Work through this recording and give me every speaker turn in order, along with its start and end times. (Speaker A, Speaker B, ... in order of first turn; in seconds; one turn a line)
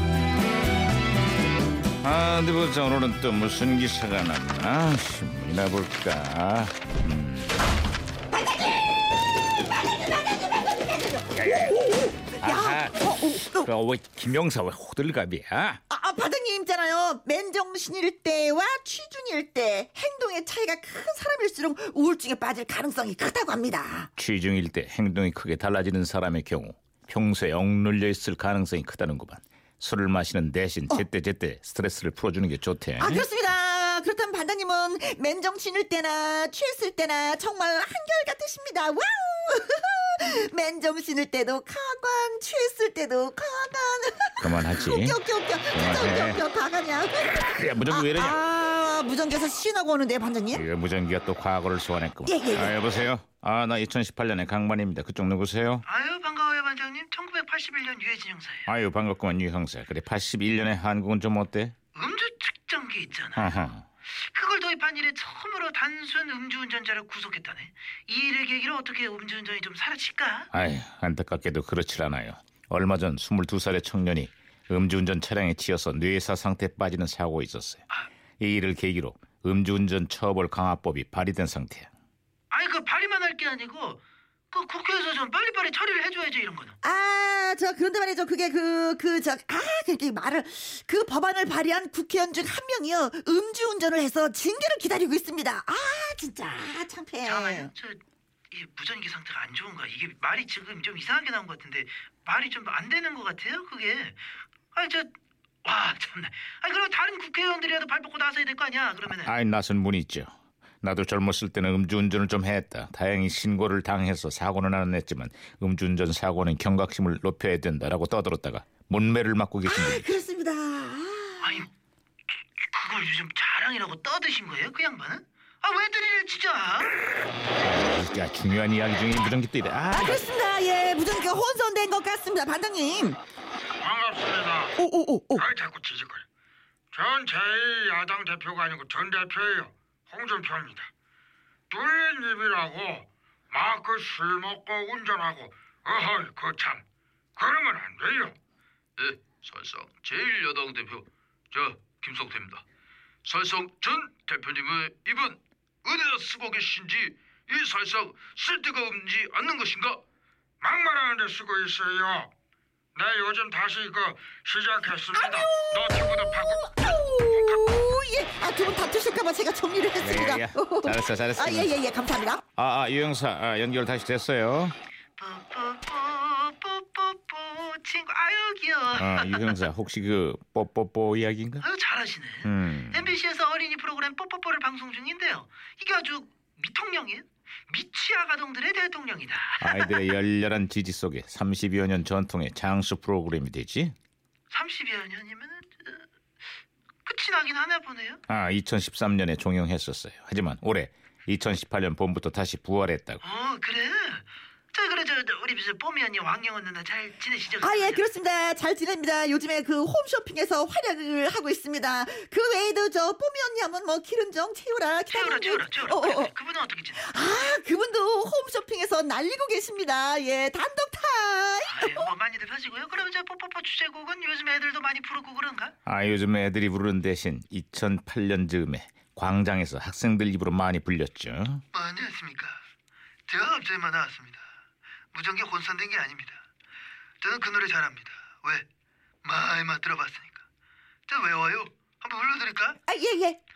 Speaker A: 2.0-7.6
Speaker A: 11.3-15.8
Speaker B: 12.4-13.7
Speaker B: 15.9-24.1
Speaker A: 24.2-33.3
Speaker B: 33.0-50.6
Speaker A: 44.4-45.2
Speaker A: 45.7-46.4
Speaker A: 47.3-48.4
Speaker A: 50.5-55.8
Speaker B: 52.3-52.8
Speaker C: 55.9-58.7
Speaker A: 58.7-61.7
Speaker C: 61.9-70.5
Speaker A: 63.4-63.9
Speaker A: 70.5-77.8
Speaker A: 78.4-81.9
Speaker C: 82.5-84.0
Speaker C: 84.5-86.8
Speaker B: 86.8-97.7
Speaker C: 97.2-105.1
Speaker C: 105.6-109.3
Speaker A: 109.2-110.3
Speaker A: 110.8-120.1
Speaker B: 119.7-121.6
Speaker C: 121.4-121.7
Speaker C: 122.5-127.0
Speaker A: 127.6-130.2
Speaker B: 129.9-133.2
Speaker D: 133.8-134.8
Speaker B: 134.8-135.5
Speaker D: 135.3-136.2
Speaker D: 136.9-140.9
Speaker D: 141.7-146.8
Speaker D: 147.4-148.3
Speaker E: 149.0-152.6
Speaker E: 153.2-160.0
Speaker D: 160.6-162.3
Speaker D: 162.9-166.7
Speaker B: 165.1-172.4
Speaker A: 170.0-171.7
Speaker A: 172.6-174.8
Speaker C: 175.2-179.7
Speaker A: 178.9-181.7
Speaker C: 181.6-190.0
Speaker A: 182.4-183.1
Speaker A: 189.6-193.9
Speaker C: 194.5-196.1
Speaker C: 197.1-198.2
Speaker A: 198.3-203.2
Speaker C: 203.2-208.1
Speaker B: 207.6-216.3
Speaker C: 215.1-217.1
Speaker B: 216.9-222.1
Speaker C: 221.6-225.7
Speaker A: 225.9-231.6
Speaker C: 231.7-232.6
Speaker C: 233.3-234.4
Speaker C: 235.1-236.4
Speaker C: 237.2-238.7
Speaker C: 239.2-240.4
Speaker C: 241.1-242.8
Speaker B: 242.9-243.4